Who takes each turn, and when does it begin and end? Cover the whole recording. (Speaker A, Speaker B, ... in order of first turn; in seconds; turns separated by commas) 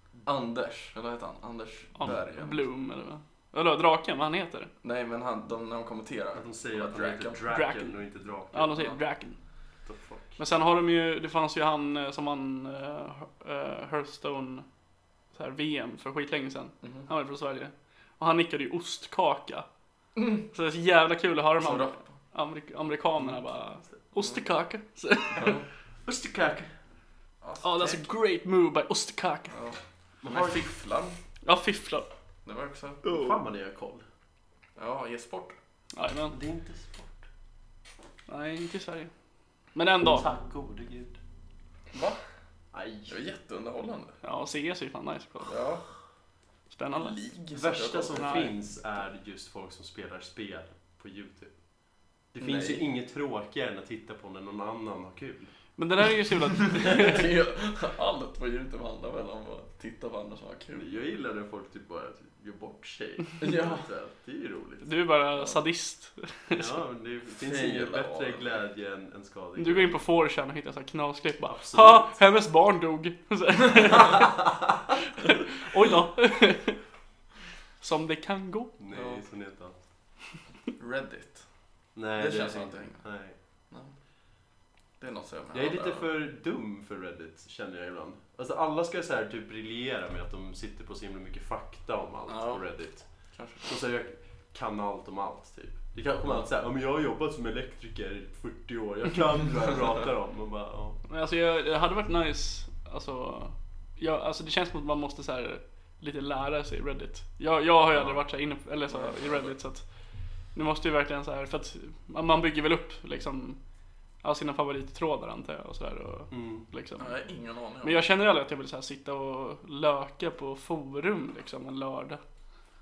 Speaker A: 0.2-2.6, Speaker B: 2.0-4.7, Speaker A: 4.8-7.4, Speaker C: 6.3-8.8, Speaker B: 7.5-8.0, Speaker B: 8.5-9.4, Speaker C: 9.8-10.4, Speaker B: 10.4-14.7, Speaker B: 15.3-19.6, Speaker A: 16.8-17.1, Speaker A: 20.1-20.4, Speaker B: 20.4-25.6, Speaker A: 21.6-22.1, Speaker A: 25.3-25.6, Speaker C: 26.0-26.7, Speaker A: 27.4-28.0, Speaker B: 27.6-29.6, Speaker A: 29.5-31.2, Speaker C: 30.2-30.7, Speaker B: 31.4-32.1, Speaker A: 32.4-33.0, Speaker B: 33.0-33.4, Speaker C: 33.0-34.0, Speaker A: 34.8-35.5, Speaker B: 35.9-36.3, Speaker C: 36.3-37.2, Speaker B: 38.3-39.1, Speaker B: 39.7-40.3, Speaker C: 40.1-41.2, Speaker A: 41.9-42.2, Speaker C: 42.7-43.2, Speaker A: 43.1-44.1, Speaker B: 44.2-45.6, Speaker A: 45.5-45.8, Speaker B: 46.7-47.1, Speaker A: 47.0-48.5, Speaker C: 47.5-51.5, Speaker B: 48.1-48.5, Speaker C: 52.3-55.5, Speaker A: 52.4-52.8, Speaker B: 55.8-57.2, Speaker A: 56.7-60.8, Speaker C: 60.7-64.9, Speaker A: 63.4-63.9, Speaker B: 64.8-66.8, Speaker A: 65.3-65.6, Speaker C: 66.5-70.0, Speaker A: 67.4-68.6, Speaker B: 69.5-74.5, Speaker C: 71.5-72.2, Speaker B: 75.0-76.8, Speaker B: 77.8-78.7, Speaker C: 78.8-79.8, Speaker A: 78.9-79.2, Speaker A: 80.8-81.4, Speaker C: 81.9-83.4, Speaker A: 82.2-83.1, Speaker A: 85.0-86.1, Speaker C: 85.5-93.1, Speaker A: 92.3-92.6, Speaker A: 93.3-93.8, Speaker C: 93.6-101.0, Speaker B: 101.1-109.9, Speaker C: 107.9-108.2, Speaker A: 108.9-109.5, Speaker B: 110.5-113.6, Speaker B: 114.2-117.1, Speaker C: 116.3-116.7, Speaker A: 117.0-118.0, Speaker B: 117.8-122.2